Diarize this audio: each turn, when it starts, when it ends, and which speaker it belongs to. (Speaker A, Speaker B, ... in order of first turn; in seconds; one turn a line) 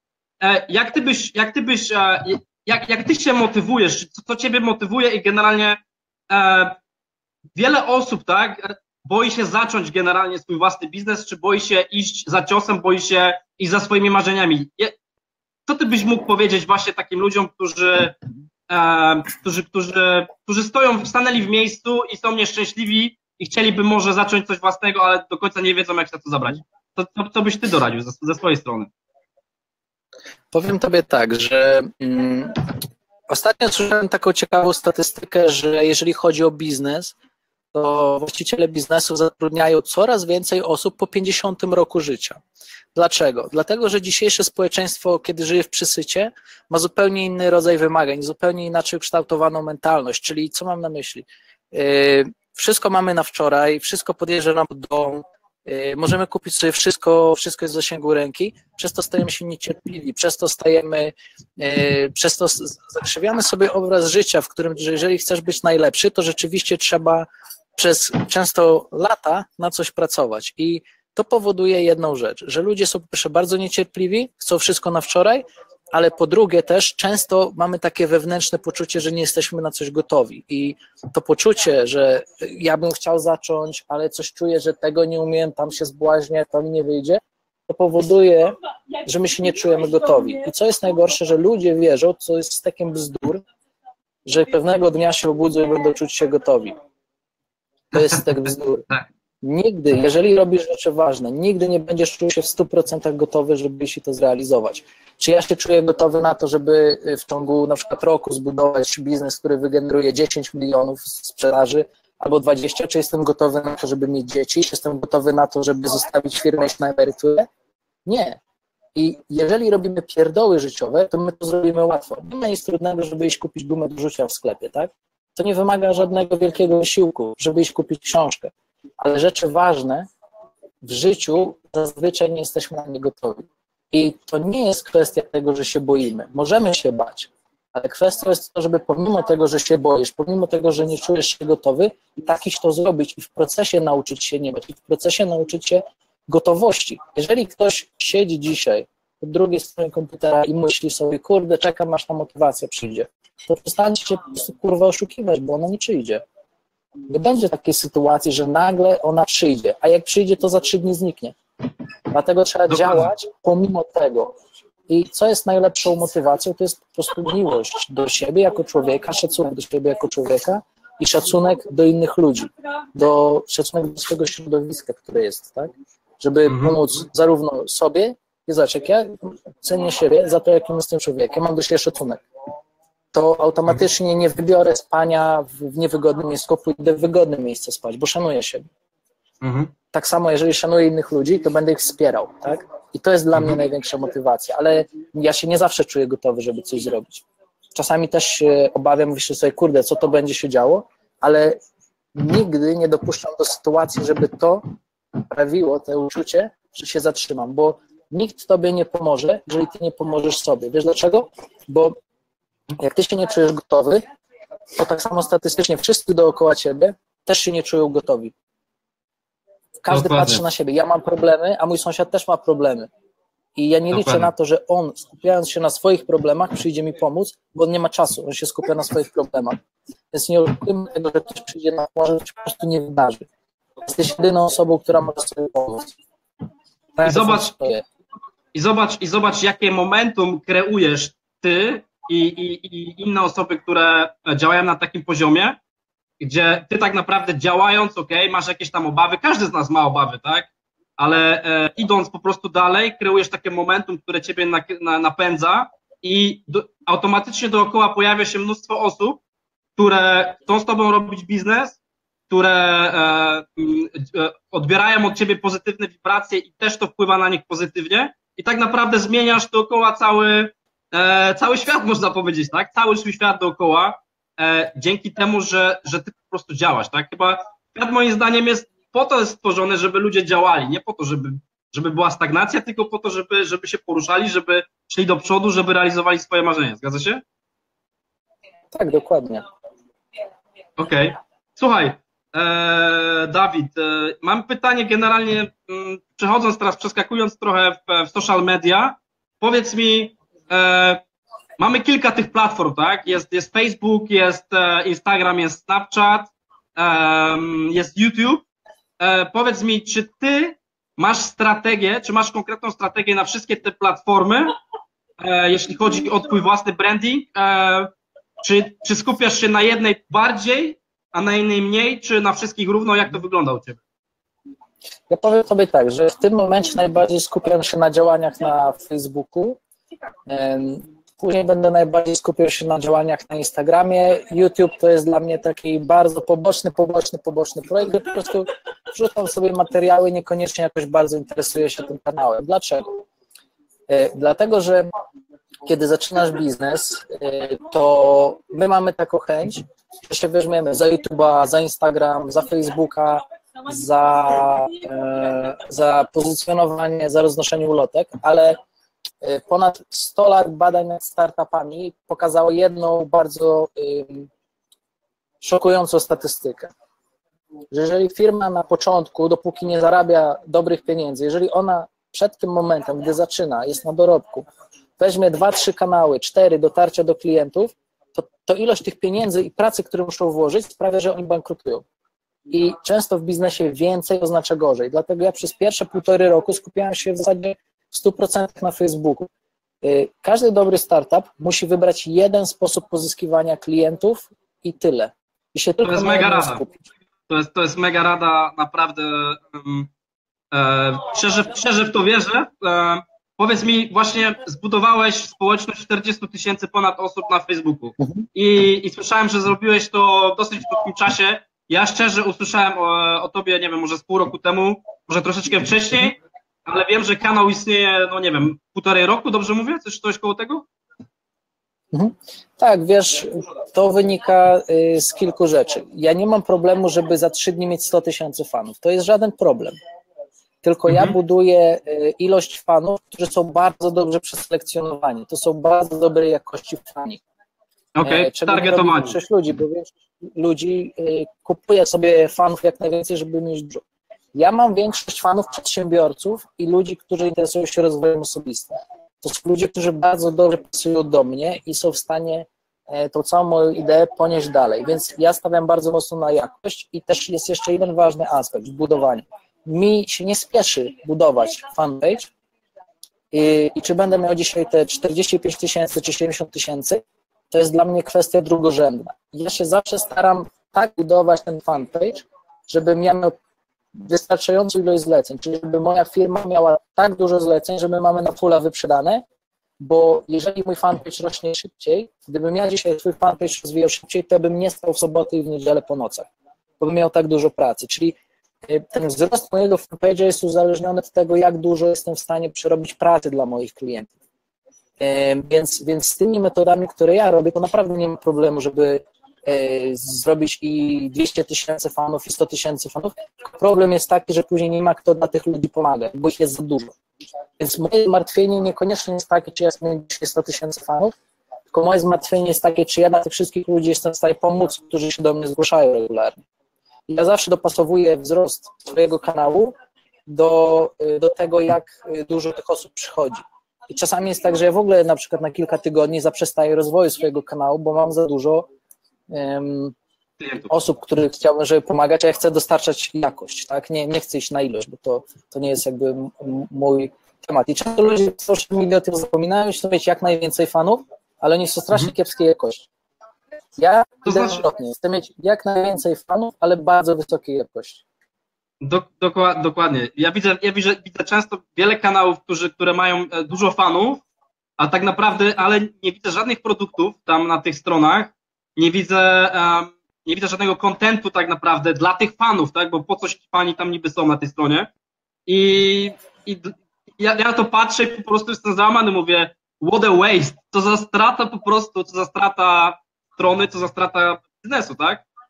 Speaker A: 0.4-6.8
Speaker A: 7.5-14.9
Speaker A: 15.7-18.2
Speaker A: 18.7-28.9
Speaker B: 30.5-32.6
Speaker B: 33.3-37.1
Speaker B: 37.7-42.4
Speaker B: 42.9-93.4
Speaker B: 94.2-96.8
Speaker B: 97.9-98.8
Speaker A: 97.9-98.2
Speaker B: 99.4-117.5
Speaker B: 118.0-118.4
Speaker B: 118.9-130.1
Speaker B: 130.8-156.2
Speaker B: 157.1-161.3
Speaker B: 162.1-164.3
Speaker A: 162.7-163.1
Speaker B: 164.9-182.2
Speaker A: 176.5-176.8
Speaker B: 183.1-188.7
Speaker A: 189.4-189.7
Speaker B: 189.9-201.6
Speaker B: 202.1-204.6
Speaker B: 205.3-211.9
Speaker B: 212.8-214.0
Speaker B: 214.8-218.3
Speaker B: 219.8-222.9
Speaker A: 219.9-220.4
Speaker B: 223.6-229.6
Speaker A: 223.9-224.3
Speaker B: 230.1-233.2
Speaker B: 233.8-235.9
Speaker B: 237.0-237.8
Speaker A: 237.0-237.5
Speaker A: 238.5-245.6
Speaker A: 246.2-259.2
Speaker A: 259.8-261.8
Speaker A: 262.3-287.2
Speaker B: 288.7-289.4
Speaker A: 290.8-301.0
Speaker A: 301.6-308.4
Speaker A: 309.0-314.6
Speaker A: 315.2-323.8
Speaker B: 325.1-329.6
Speaker B: 330.3-343.0
Speaker B: 343.9-344.9
Speaker B: 345.6-358.6
Speaker B: 359.2-364.3
Speaker B: 365.4-366.7
Speaker B: 367.7-374.4
Speaker B: 375.0-381.8
Speaker B: 382.5-389.3
Speaker B: 389.8-396.8
Speaker A: 395.8-396.6
Speaker A: 397.3-399.9
Speaker A: 400.5-420.6
Speaker B: 408.0-408.2
Speaker B: 421.9-429.8
Speaker B: 430.6-437.2
Speaker A: 430.9-431.2
Speaker A: 437.9-439.2
Speaker B: 438.0-443.8
Speaker B: 444.3-462.3
Speaker B: 463.3-473.3
Speaker B: 474.0-479.2
Speaker B: 479.8-486.3
Speaker B: 486.8-494.1
Speaker B: 495.0-506.9
Speaker B: 507.6-511.1
Speaker B: 511.7-516.4
Speaker B: 517.1-519.7
Speaker B: 520.3-528.7
Speaker B: 529.3-529.9
Speaker A: 530.4-530.7
Speaker B: 530.7-542.9
Speaker B: 543.8-548.0
Speaker A: 544.2-544.6
Speaker A: 548.8-554.2
Speaker A: 554.8-564.9
Speaker A: 565.5-575.2